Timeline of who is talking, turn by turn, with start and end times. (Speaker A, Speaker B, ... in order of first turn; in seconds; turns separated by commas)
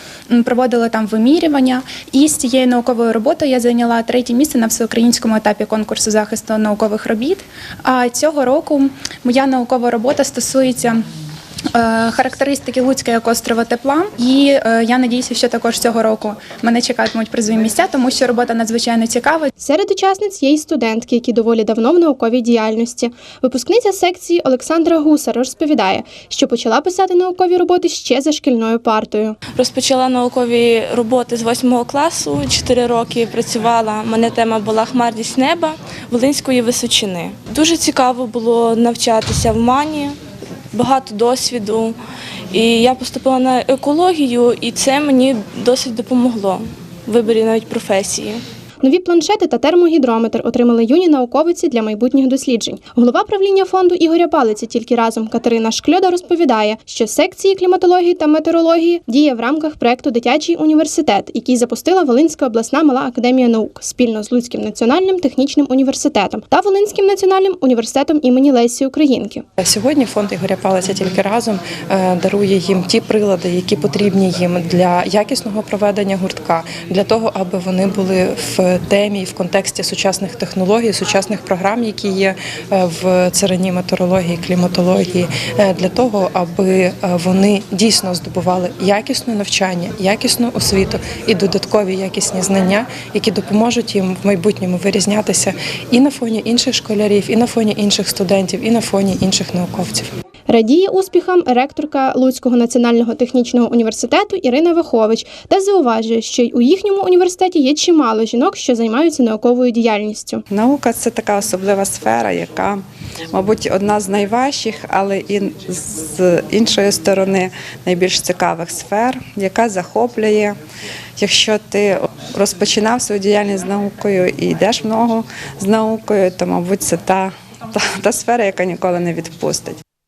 Speaker A: 0.4-11.0, Speaker A: 11.8-19.5, Speaker B: 19.6-29.4, Speaker C: 29.5-40.2, Speaker C: 40.7-42.0, Speaker C: 42.5-48.4, Speaker B: 48.8-69.4, Speaker D: 69.6-100.1, Speaker B: 100.5-110.4, Speaker E: 110.5-112.8, Speaker E: 113.3-120.5, Speaker E: 121.2-129.8